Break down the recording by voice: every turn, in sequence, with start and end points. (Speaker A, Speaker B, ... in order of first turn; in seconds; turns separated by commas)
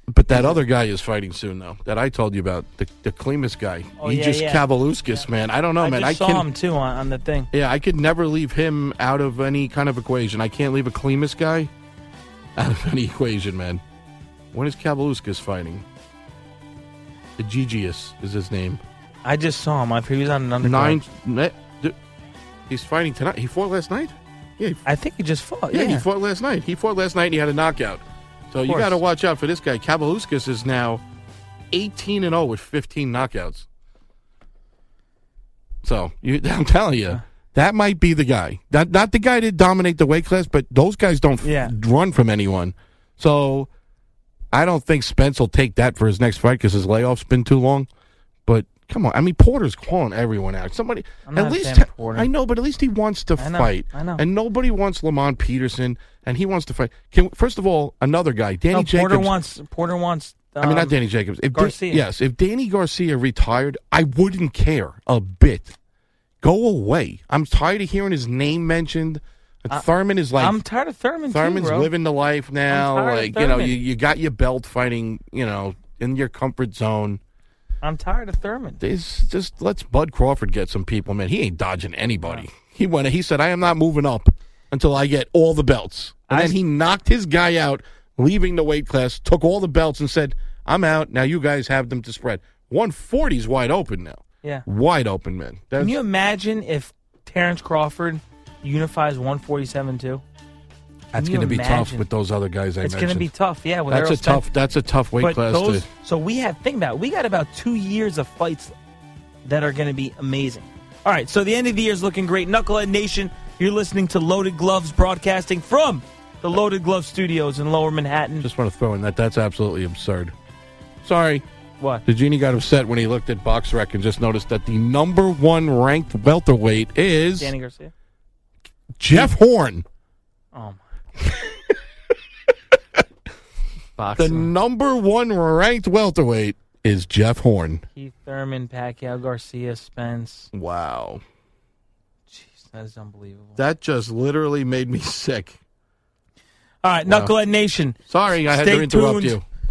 Speaker A: 0.1-6.5, Speaker B: 0.3-0.7, Speaker B: 4.0-5.2, Speaker B: 5.8-7.5, Speaker A: 7.5-11.7, Speaker A: 12.6-13.8, Speaker A: 14.5-15.8, Speaker A: 17.4-18.8, Speaker B: 19.2-21.0, Speaker A: 20.6-22.0, Speaker A: 22.7-24.8, Speaker B: 24.9-26.1, Speaker A: 25.7-31.0, Speaker B: 28.7-29.0, Speaker A: 31.7-33.7, Speaker A: 35.8-43.7, Speaker B: 41.4-41.7, Speaker A: 44.5-47.9, Speaker A: 48.5-59.3, Speaker B: 51.3-52.3, Speaker B: 53.4-54.2, Speaker B: 58.7-60.9, Speaker A: 60.6-65.7, Speaker B: 61.5-62.0, Speaker A: 66.4-70.6, Speaker B: 70.4-71.9, Speaker A: 71.3-77.2, Speaker B: 72.7-73.8, Speaker B: 77.8-78.8, Speaker A: 78.8-96.0, Speaker B: 86.3-86.6, Speaker B: 95.8-100.2, Speaker A: 101.1-103.3, Speaker B: 101.2-102.1, Speaker B: 102.8-104.4, Speaker A: 103.9-105.9, Speaker B: 105.2-108.7, Speaker B: 109.5-118.5, Speaker A: 118.4-120.3, Speaker A: 121.0-121.4, Speaker A: 122.0-127.5, Speaker B: 127.4-127.9, Speaker A: 129.0-129.8, Speaker B: 130.5-130.8, Speaker A: 131.2-131.7, Speaker B: 134.0-134.5, Speaker A: 134.2-137.8, Speaker B: 137.9-140.5, Speaker A: 140.5-141.2, Speaker B: 142.3-143.6, Speaker A: 143.6-145.6, Speaker B: 146.8-149.4, Speaker A: 147.1-147.3, Speaker A: 148.1-149.4